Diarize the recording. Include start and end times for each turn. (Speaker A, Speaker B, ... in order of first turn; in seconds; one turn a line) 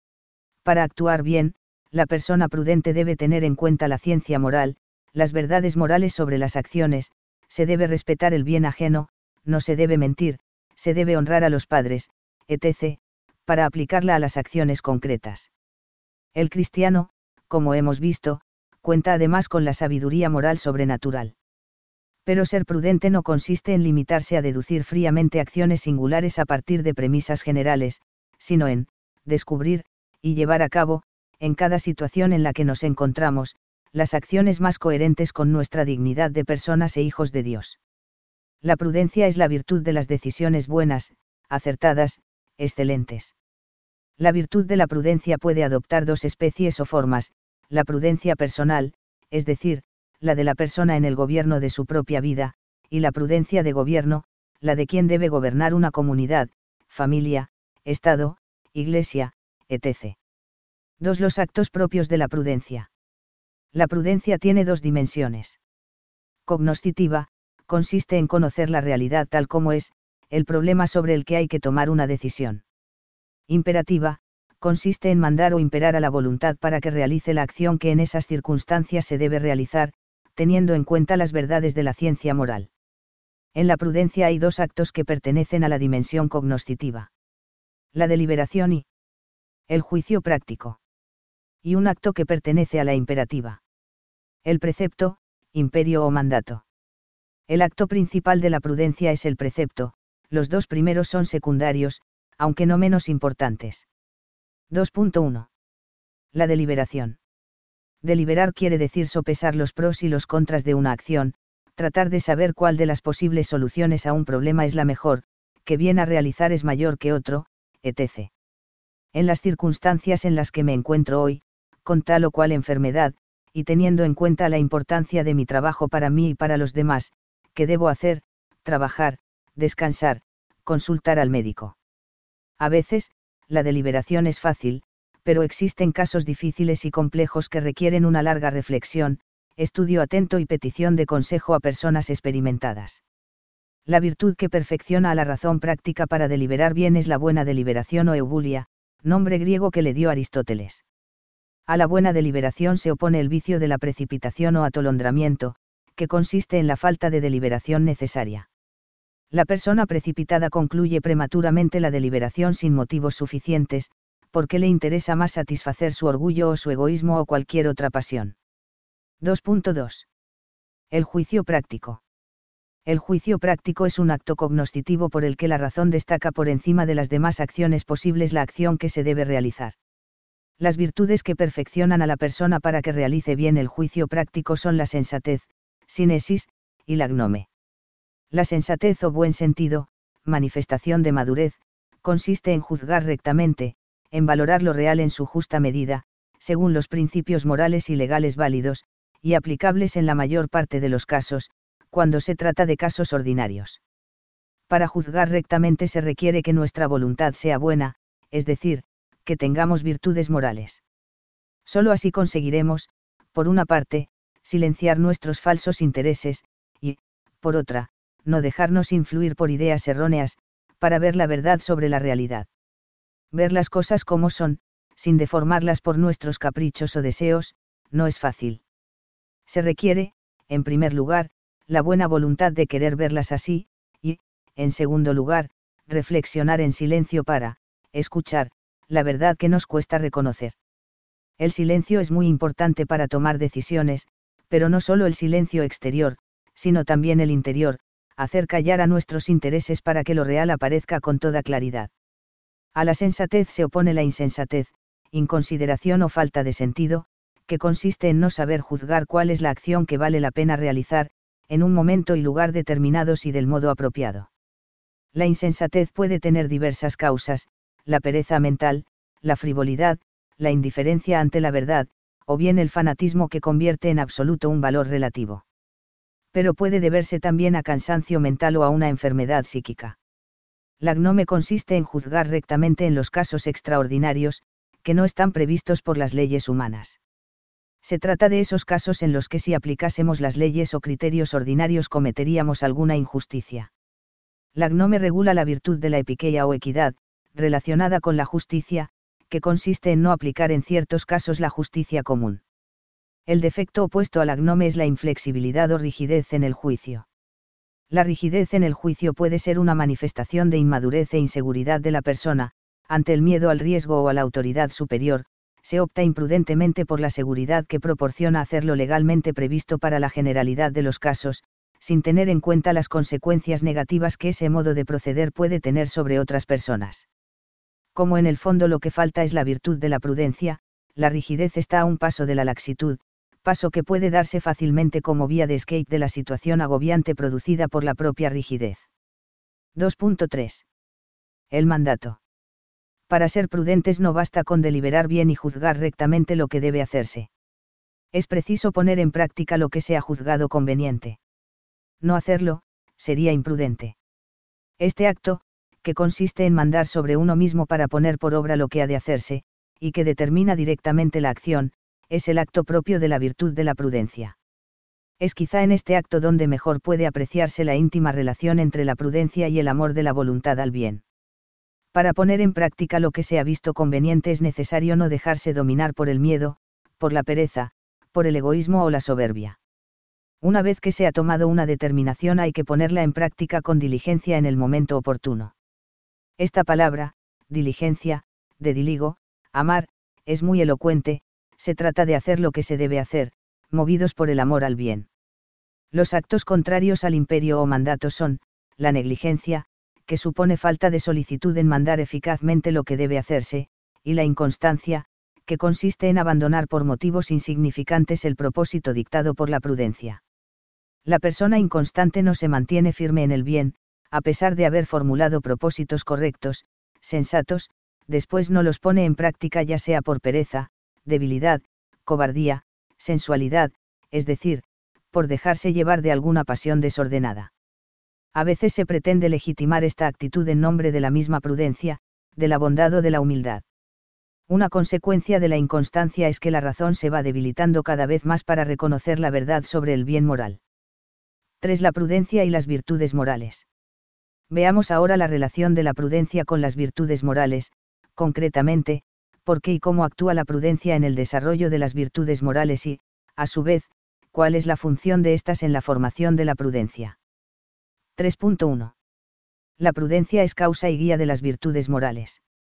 Speaker A: 0.6-15.5
Speaker A: 16.4-21.4
Speaker A: 22.3-37.8
Speaker A: 38.6-43.3
Speaker A: 44.2-60.2
Speaker A: 61.0-62.9
Speaker A: 63.7-65.6
Speaker A: 66.5-72.6
Speaker A: 73.5-82.7
Speaker A: 83.5-87.1
Speaker A: 87.9-88.9
Speaker A: 89.7-90.8
Speaker A: 91.6-93.6
Speaker A: 94.5-96.6
Speaker A: 97.5-103.9
Speaker A: 104.7-105.5
Speaker A: 106.3-107.2
Speaker A: 108.0-118.3
Speaker A: 119.1-131.8
Speaker A: 132.6-143.0
Speaker A: 143.9-150.8
Speaker A: 151.7-158.5
Speaker A: 159.3-168.4
Speaker A: 169.2-170.1
Speaker A: 170.9-172.0
Speaker A: 172.9-179.8
Speaker A: 180.6-187.5
Speaker A: 188.3-203.8
Speaker A: 204.7-210.8
Speaker A: 211.7-222.5
Speaker A: 223.3-228.6
Speaker A: 229.5-240.6
Speaker A: 241.4-251.9
Speaker A: 252.8-264.3
Speaker A: 265.1-275.4
Speaker A: 276.3-280.0
Speaker A: 280.8-287.0
Speaker A: 287.8-293.7
Speaker A: 294.6-302.4
Speaker A: 303.3-307.1
Speaker A: 307.9-327.1
Speaker A: 327.9-338.9
Speaker A: 339.8-340.7
Speaker A: 341.5-342.2
Speaker A: 343.1-347.3
Speaker A: 348.1-351.2
Speaker A: 352.0-354.0
Speaker A: 354.8-364.4
Speaker A: 365.2-371.0
Speaker A: 371.9-379.6
Speaker A: 380.4-385.5
Speaker A: 386.4-395.1
Speaker A: 395.9-410.2
Speaker A: 411.1-427.5
Speaker A: 428.4-433.6
Speaker A: 434.5-440.6
Speaker A: 441.6-443.7
Speaker A: 444.5-457.2
Speaker A: 458.2-458.9
Speaker A: 459.8-462.4